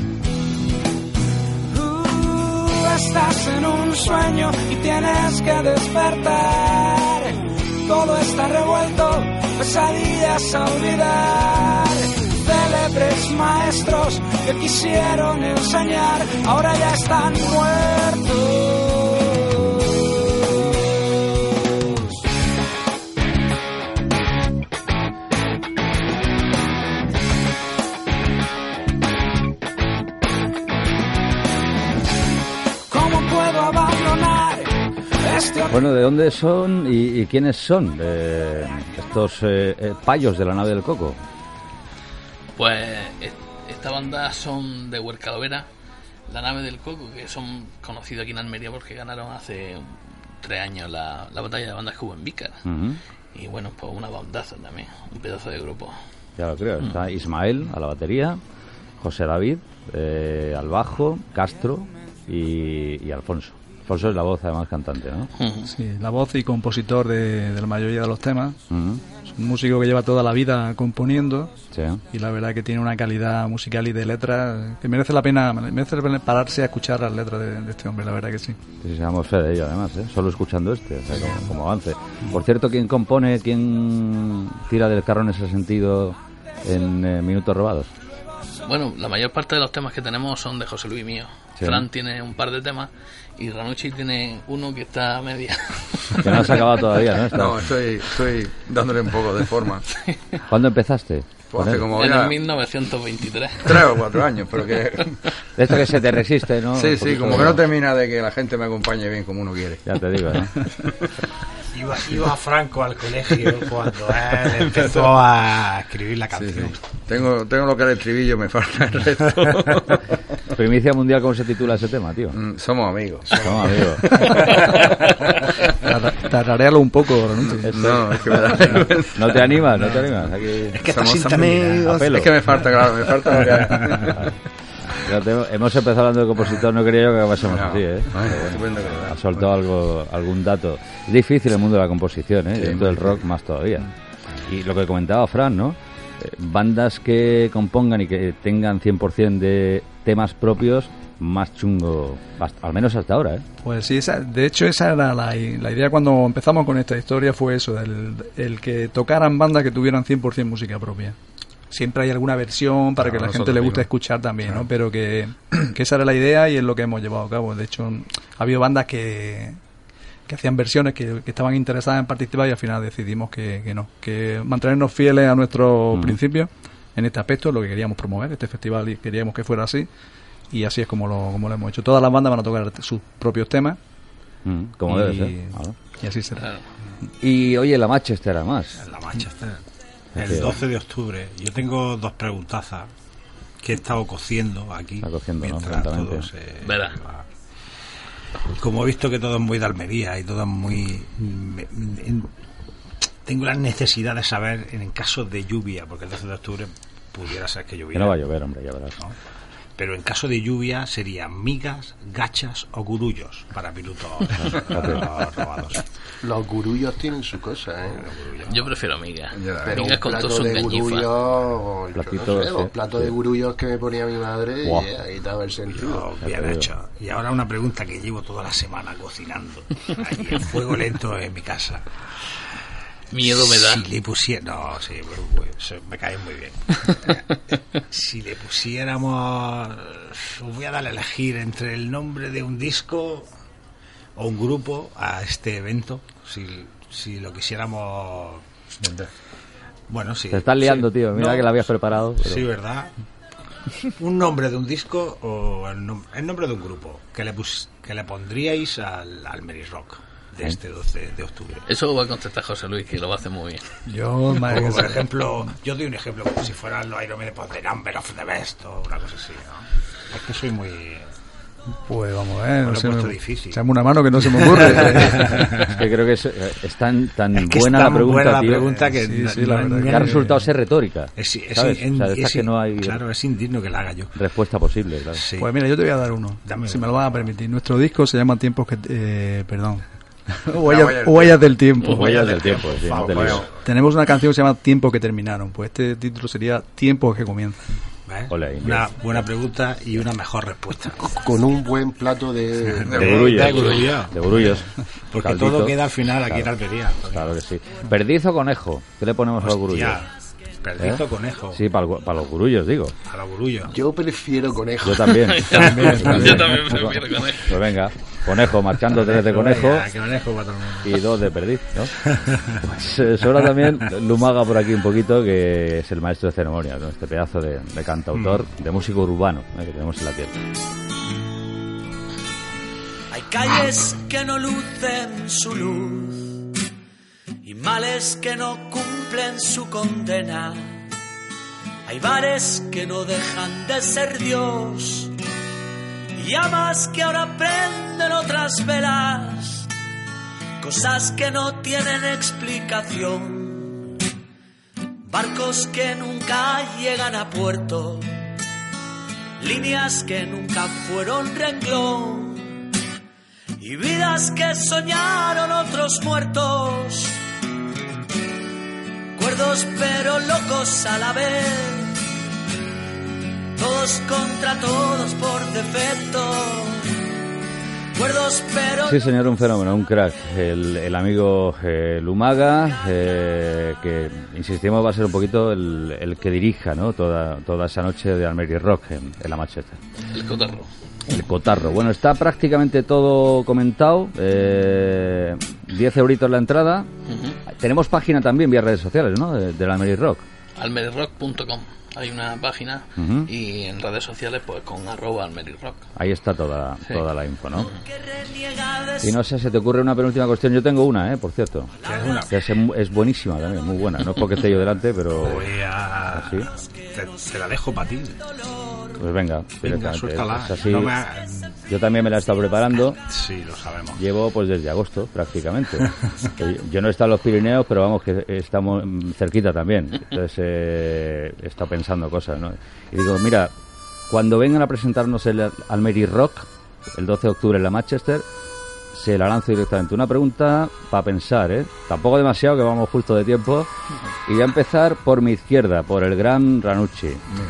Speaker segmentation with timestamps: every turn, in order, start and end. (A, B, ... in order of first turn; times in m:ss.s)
0:01.7-0:20.6 A
0:21.4-0:22.1 A
0:32.9-0:35.7 A
0:35.7-0:41.2 B
0:42.6-0:45.7 C
0:46.3-0:52.6 C
0:52.7-0:53.0 B
0:53.3-0:56.0 C
0:56.4-0:58.4 B
0:59.0-1:05.3 B
1:05.4-1:05.7 C
1:05.6-1:08.6 D
1:08.7-1:09.0 B
1:09.3-1:11.5 D
1:11.7-1:12.0 B
1:12.1-1:18.6 D
1:18.8-1:27.9 B
1:28.6-1:36.7 C
1:31.6-1:31.8 B
1:36.2-1:37.7 B
1:37.3-1:39.9 E
1:40.0-1:40.4 C
1:40.5-1:41.9 B
1:41.5-1:42.4 E
1:41.9-1:43.9 C
1:43.6-1:45.4 E
1:45.6-1:47.6 B
1:46.7-1:49.8 E
1:49.9-1:50.5 B
1:50.7-1:51.1 E
1:51.7-1:56.8 F
1:56.3-2:00.2 E
2:00.6-2:02.4 B
2:02.3-2:05.8 E
2:03.4-2:04.1 B
2:04.1-2:04.4 D
2:04.2-2:04.7 F
2:05.8-2:07.8 D
2:07.6-2:09.3 E
2:07.6-2:10.8 B
2:09.7-2:10.1 F
2:10.7-2:12.1 F
2:10.8-2:14.3 E
2:11.9-2:12.3 B
2:13.4-2:14.1 F
2:15.0-2:23.9 B
2:17.4-2:19.5 E
2:22.6-2:23.2 E
2:24.5-2:33.4 B
2:33.6-2:41.2 D
2:41.7-2:49.6 D
2:43.0-2:43.9 E
2:50.3-2:59.9 D
3:00.5-3:03.8 D
3:04.4-3:05.8 B
3:04.9-3:06.5 D
3:06.4-3:06.6 C
3:07.2-3:08.8 B
3:08.8-3:09.6 F
3:10.2-3:12.9 F
3:10.2-3:10.5 B
3:13.6-3:17.2 F
3:15.0-3:16.3 B
3:16.6-3:17.0 C
3:18.6-3:22.3 F
3:23.2-3:28.2 F
3:27.9-3:29.0 B
3:29.8-3:35.8 F
3:34.4-3:35.0 B
3:36.2-3:38.1 G
3:38.0-3:38.7 F
3:38.5-3:41.1 C
3:39.3-3:39.9 E
3:39.6-3:46.1 G
3:42.0-3:43.2 B
3:44.6-3:44.9 B
3:45.7-3:51.9 F
3:46.2-3:46.7 B
3:53.1-3:53.8 C
3:53.2-4:03.3 F
4:04.2-4:09.1 F
4:09.9-4:11.5 F
4:10.3-4:12.5 B
4:12.2-4:12.9 F
4:14.0-4:21.6 F
4:21.7-4:23.7 C
4:23.9-4:25.1 D
4:24.4-4:31.1 F
4:31.9-4:35.5 D
4:32.6-4:33.6 F
4:34.3-4:35.8 F
4:35.6-4:38.7 B
4:37.4-4:40.2 F
4:38.8-4:40.4 D
4:39.8-4:43.0 B
4:41.2-4:44.2 F
4:44.2-4:45.2 B
4:45.2-4:45.5 F
4:45.4-4:52.2 D
4:46.4-4:47.3 F
4:50.6-4:51.5 E
4:51.9-4:53.5 F
4:51.9-4:53.5 B
4:53.6-4:57.7 D
4:58.1-5:01.2 F
4:58.3-4:59.3 B
5:01.2-5:03.4 G
5:02.7-5:07.3 F
5:02.9-5:03.7 E
5:02.9-5:06.5 B
5:07.1-5:10.0 B
5:09.4-5:10.1 F
5:10.6-5:11.6 F
5:10.8-5:13.0 B
5:13.1-5:13.7 F
5:13.7-5:15.5 G
5:14.8-5:19.9 B
5:15.1-5:17.6 C
5:15.7-5:16.7 F
5:18.9-5:21.0 F
5:20.8-5:30.4 B
5:22.0-5:22.6 F
5:28.1-5:28.5 F
5:33.1-5:36.3 H
5:37.4-5:40.8 H
5:41.9-5:45.1 H
5:46.2-5:49.7 H
5:50.6-5:53.8 H
5:55.1-5:58.1 H
5:59.4-6:02.4 H
6:03.6-6:07.2 H
6:09.2-6:12.0 H
6:13.6-6:16.9 H
6:18.0-6:19.0 H
6:18.8-6:29.8 B
6:30.1-6:30.7 C
6:31.1-6:36.9 B
6:37.1-6:37.4 C
6:37.5-6:40.2 B
6:40.6-6:45.8 C
6:43.0-6:43.3 B
6:46.0-6:47.7 B
6:46.9-6:47.8 C
6:47.8-6:49.2 H
6:49.0-6:51.7 B
6:51.8-6:52.3 H
6:51.8-6:52.3 F
6:52.2-6:55.5 B
6:55.1-6:58.2 F
6:56.1-6:56.5 B
6:56.5-6:57.3 H
6:58.2-6:59.0 H
6:59.0-7:01.0 B
6:59.6-7:01.6 F
7:01.7-7:03.0 B
7:03.0-7:04.0 F
7:04.0-7:13.5 B
7:14.1-7:18.3 B
7:18.9-7:23.7 B
7:24.3-7:27.2 B